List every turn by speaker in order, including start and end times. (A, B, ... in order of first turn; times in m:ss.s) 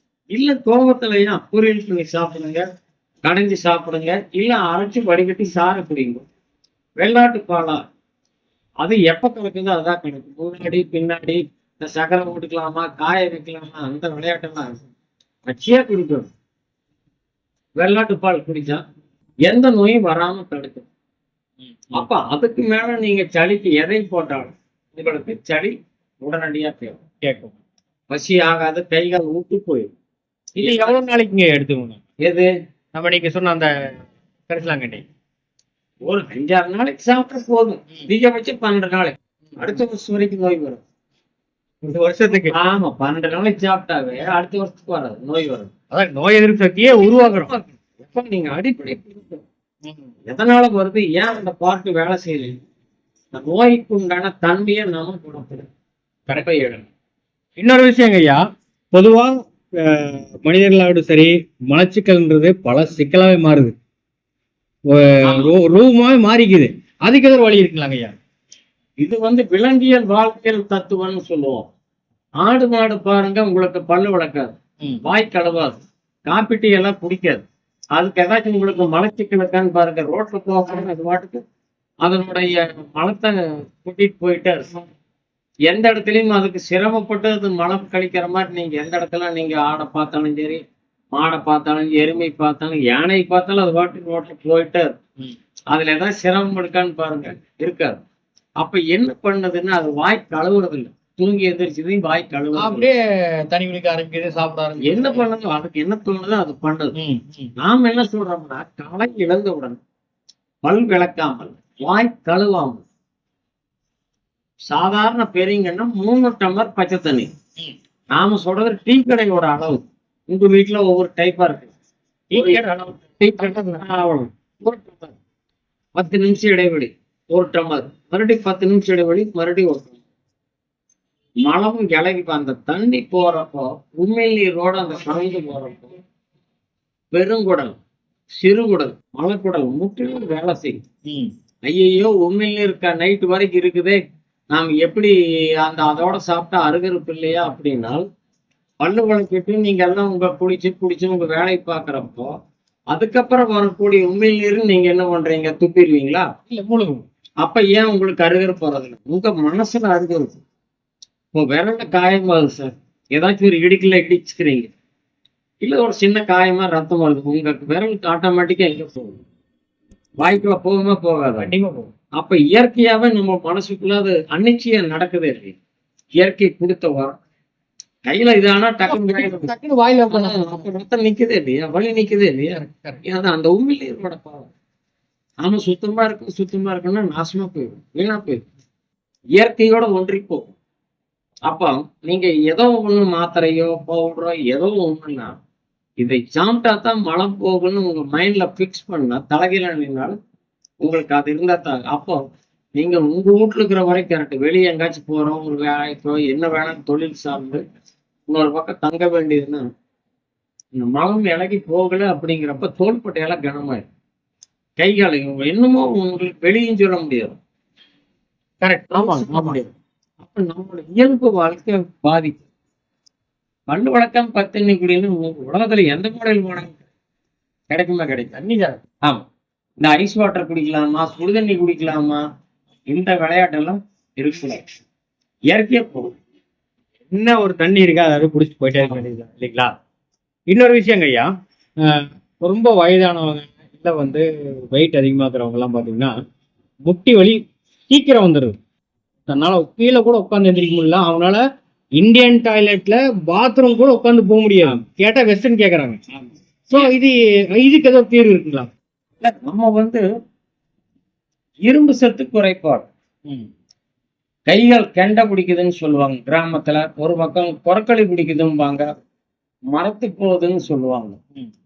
0:00.3-0:02.6 A
0:03.2-0:06.2 A
0:07.0-0:07.8 A
0:08.8-0:14.8 A
0:15.5-0:16.3 A
0:17.8-0:18.8 A
0:19.5-0:20.9 A
0:21.9-0:27.0 A
0:27.2-0:27.5 B
0:28.1-0:29.9 A
0:30.6-0:31.0 A
0:30.6-0:32.0 B
0:32.2-0:32.5 A
0:32.9-0:33.7 B
0:34.5-0:35.0 B
0:36.0-0:40.8 A
0:41.8-0:42.6 B
0:42.5-0:45.7 A
0:45.9-0:47.5 B
0:46.9-0:49.4 A
0:50.3-0:52.6 A
0:53.3-0:55.7 A
0:56.3-0:56.9 A
0:57.6-0:58.4 B
0:58.9-1:03.7 B
1:04.9-1:08.2 B
1:05.2-1:05.5 A
1:09.0-1:11.7 A
1:12.4-1:14.5 A
1:15.0-1:17.4 A
1:18.0-1:21.4 A
1:22.0-1:24.8 A
1:25.7-1:30.6 A
1:31.1-1:34.9 A
1:35.7-1:38.0 A
1:38.6-1:42.9 A
1:42.6-1:45.2 B
1:44.8-1:46.9 A
1:46.9-1:47.5 B
1:47.6-1:49.8 A
1:50.6-1:52.8 A
1:54.7-1:57.3 A
1:58.1-2:01.7 A
2:02.3-2:05.1 A
2:02.3-2:02.6 B
2:05.9-2:10.0 A
2:11.4-2:16.0 A
2:17.1-2:17.8 A
2:18.4-2:20.8 A
2:21.7-2:24.0 A
2:24.5-2:28.0 A
2:28.8-2:32.3 A
2:32.9-2:36.3 A
2:36.5-2:37.0 B
2:37.4-2:40.3 A
2:41.3-2:44.7 A
2:45.6-2:49.2 A
2:50.2-2:51.5 A
2:51.5-2:51.9 B
2:52.2-2:55.6 A
2:56.2-2:57.2 A
2:58.1-2:59.5 A
2:58.9-3:00.6 B
3:00.1-3:04.5 A
3:02.6-3:03.0 B
3:05.4-3:08.4 A
3:09.4-3:10.5 A
3:11.5-3:15.3 A
3:16.0-3:20.2 A
3:20.8-3:22.2 A
3:22.8-3:27.6 A
3:28.3-3:29.6 A
3:30.8-3:33.8 A
3:34.8-3:37.4 A
3:38.6-3:39.6 B
3:38.9-3:42.4 A
3:43.7-3:46.8 A
3:47.7-3:48.4 A
3:48.4-3:48.8 B
3:49.8-3:52.2 A
3:52.9-3:54.6 A
3:55.5-3:56.1 A
3:57.1-3:59.7 B
4:00.5-4:01.3 B
4:01.8-4:06.2 B
4:06.8-4:08.6 B
4:09.3-4:11.4 B
4:12.0-4:16.0 B
4:16.7-4:18.7 B
4:19.2-4:20.0 A
4:21.6-4:22.9 A
4:24.5-4:28.8 A
4:29.7-4:31.2 A